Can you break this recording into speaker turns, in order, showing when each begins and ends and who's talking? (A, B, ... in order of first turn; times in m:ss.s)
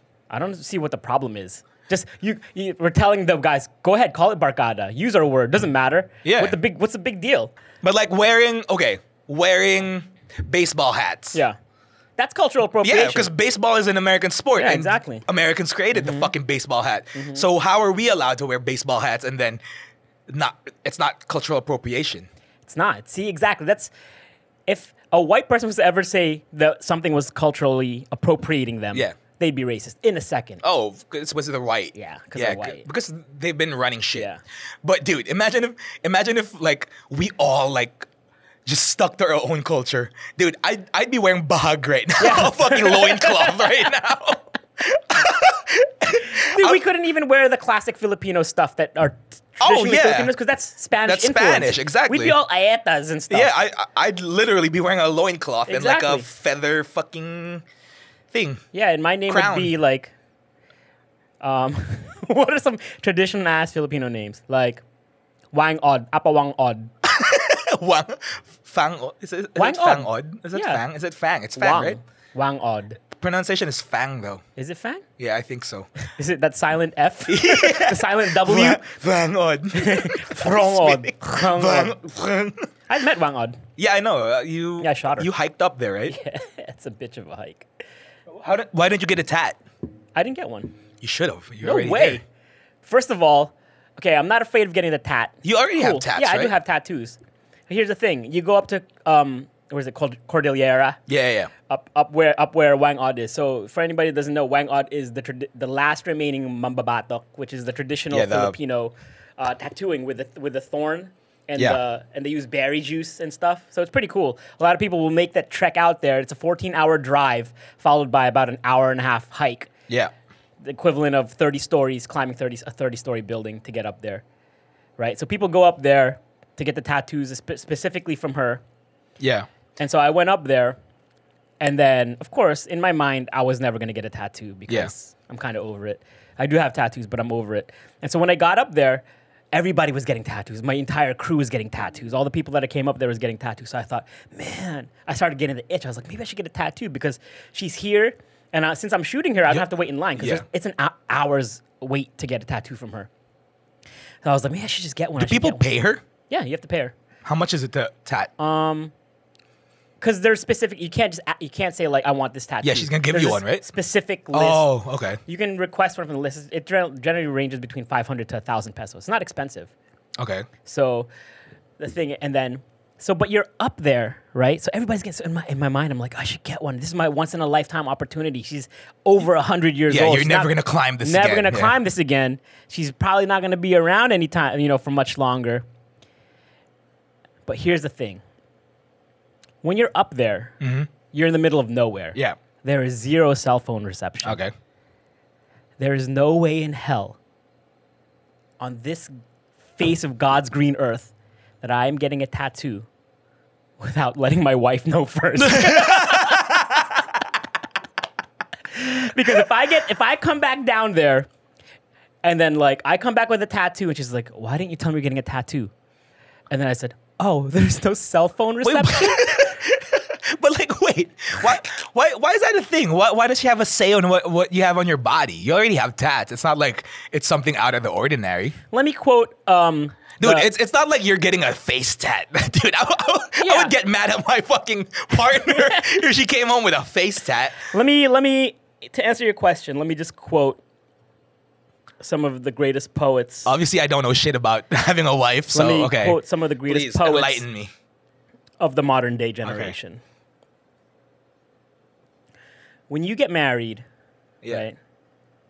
0:00.3-0:07.5 A
0:06.2-0:06.6 B
0:07.8-0:11.4 B
0:12.2-0:13.3 A
0:12.8-0:19.6 B
0:14.6-0:15.2 A
0:15.9-0:16.3 A
0:17.1-0:17.4 A
0:20.3-0:22.3 B
0:22.6-0:23.9 A
0:24.7-0:30.6 A
0:30.6-0:34.3 B
0:31.9-0:32.8 A
0:34.1-0:34.4 A
0:34.8-0:38.1 B
0:38.6-0:46.8 B
0:42.2-0:43.8 A
0:46.4-0:53.5 A
0:49.6-0:50.3 B
0:51.0-0:52.4 B
0:53.3-0:57.6 B
0:55.7-0:56.3 A
0:58.3-0:58.6 B
0:58.7-1:00.1 A
0:59.3-0:59.7 B
1:01.4-1:04.8 A
1:05.5-1:06.9 A
1:07.0-1:12.0 B
1:09.6-1:10.8 A
1:11.6-1:13.0 A
1:13.1-1:14.4 B
1:14.6-1:15.0 A
1:15.2-1:15.9 B
1:16.1-1:18.8 A
1:17.3-1:22.7 B
1:19.7-1:22.0 A
1:22.9-1:23.6 A
1:23.8-1:26.2 B
1:24.8-1:25.3 A
1:26.1-1:27.7 A
1:28.4-1:29.6 B
1:30.1-1:30.7 A
1:31.0-1:32.2 B
1:31.6-1:32.2 A
1:32.8-1:41.0 A
1:35.4-1:36.5 B
1:41.1-1:41.5 B
1:41.7-1:59.7 A
1:48.1-1:48.6 B
2:00.6-2:04.2 A
2:05.0-2:08.6 A
2:09.2-2:09.5 B
2:09.8-2:10.8 A
2:11.6-2:33.1 A
2:30.2-2:30.4 B
2:34.2-2:35.6 A
2:35.2-2:36.0 B
2:36.3-2:36.9 A
2:37.2-2:38.3 B
2:38.4-2:38.9 A
2:40.0-2:44.7 A
2:42.6-2:43.6 B
2:44.3-2:45.2 B
2:45.2-2:49.7 A
2:50.2-2:50.5 B
2:50.6-2:51.1 A
2:51.8-3:05.6 A
2:59.9-3:01.8 B
3:07.4-3:08.2 A
3:09.6-3:10.5 A
3:10.6-3:10.9 B
3:11.1-3:14.4 A
3:14.2-3:14.5 B
3:15.8-3:17.2 A
3:18.6-3:19.1 A
3:19.8-3:22.9 A
3:23.8-3:26.5 A
3:25.4-3:27.0 B
3:28.7-3:31.3 A
3:32.2-3:35.7 A
3:36.5-3:39.5 A
3:38.6-3:48.6 B
3:48.7-3:50.5 A
3:50.2-3:57.7 B
3:53.4-3:53.7 A
3:55.4-3:55.8 A
3:57.6-4:00.6 A
4:02.0-4:03.5 A
4:03.4-4:07.7 B
4:05.5-4:07.4 A
4:08.6-4:10.0 A
4:09.4-4:09.8 B
4:12.9-4:13.8 A
4:14.5-4:14.8 A